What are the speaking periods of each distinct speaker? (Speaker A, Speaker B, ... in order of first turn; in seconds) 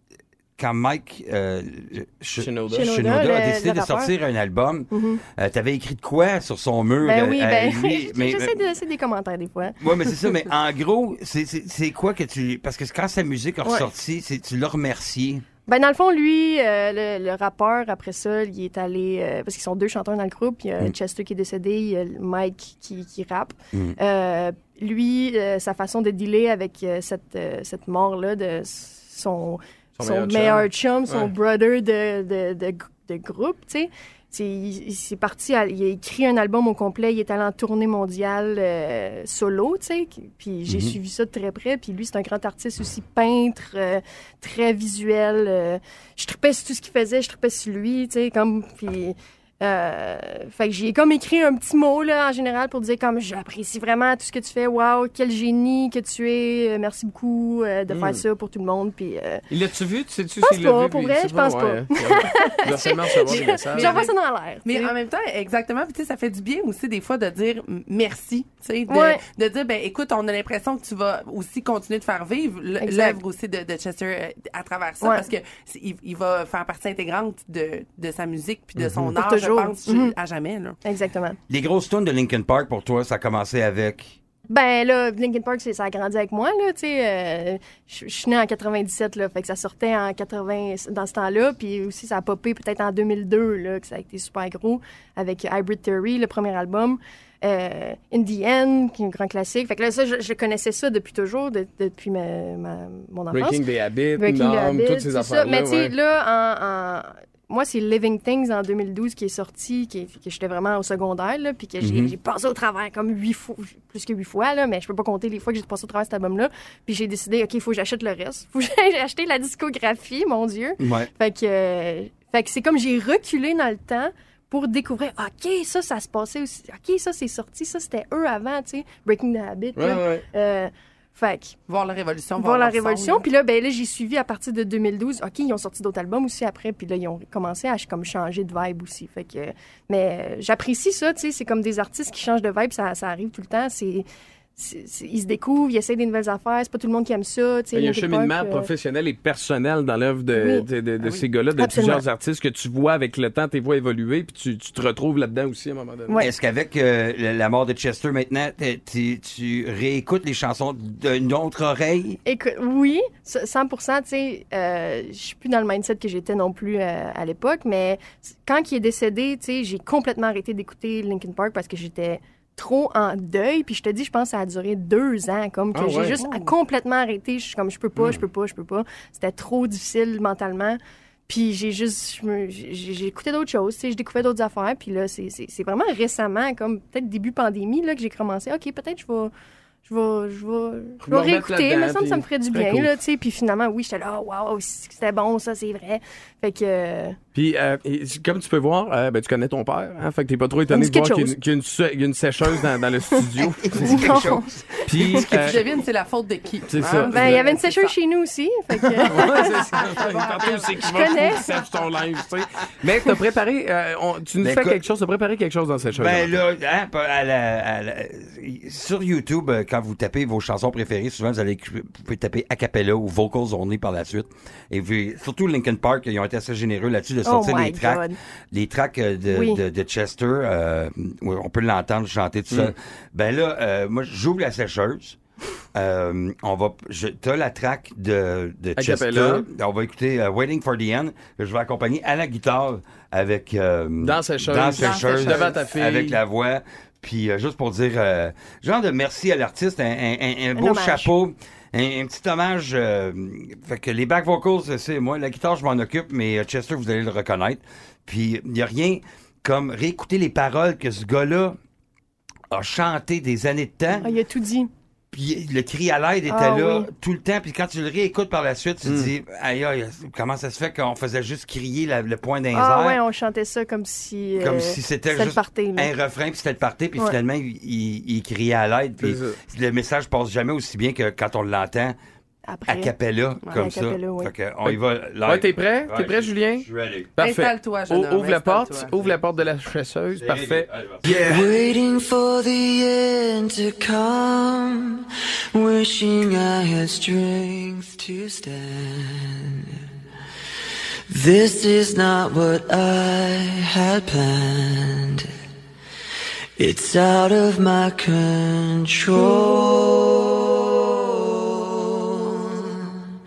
Speaker A: 0.6-8.6, 9.8-15.4, 40.7-41.0, 81.5-84.1, 111.8-112.1, 120.8-121.1, 156.2-162.2, 203.6-205.6, 214.4-214.8, 215.9-235.2, 235.7-261.6, 262.5-264.1, 265.1-273.0, 274.4-281.9, 282.7-287.1, 290.1-291.5
Speaker B: 2.4-2.9, 30.0-31.3, 57.9-58.2, 59.5-64.0, 103.3-105.9, 129.8-130.2, 147.7-156.2, 175.7-176.2, 191.0-192.9, 197.3-204.3, 204.9-205.7, 206.7-207.4, 209.1-216.4, 238.8-239.5, 244.0-246.2, 268.8-269.1, 279.0-279.4, 284.7-286.6, 287.2-291.2
Speaker C: 2.7-4.1, 4.9-5.2, 7.0-9.8, 13.6-13.9, 15.7-59.4, 60.4-64.9, 68.9-69.2, 72.8-73.2, 75.0-75.3, 79.1-80.1, 80.8-81.4, 84.5-103.6, 104.2-131.6, 132.4-144.1, 144.6-148.7, 150.3-150.7, 151.6-152.0, 162.2-189.3, 189.8-197.2, 200.7-201.3, 203.7-205.3, 207.1-209.9, 210.7-211.6, 227.2-228.2, 229.3-229.6, 250.6-251.1, 264.0-264.7, 266.3-266.9, 272.5-275.9, 282.5-282.9, 283.5-284.3
Speaker D: 63.1-80.8, 131.7-133.2, 176.2-176.5, 205.2-207.9, 208.9-211.2, 287.2-288.9
Speaker E: 291.1-299.6, 301.1-305.3, 306.6-310.5, 311.9-313.0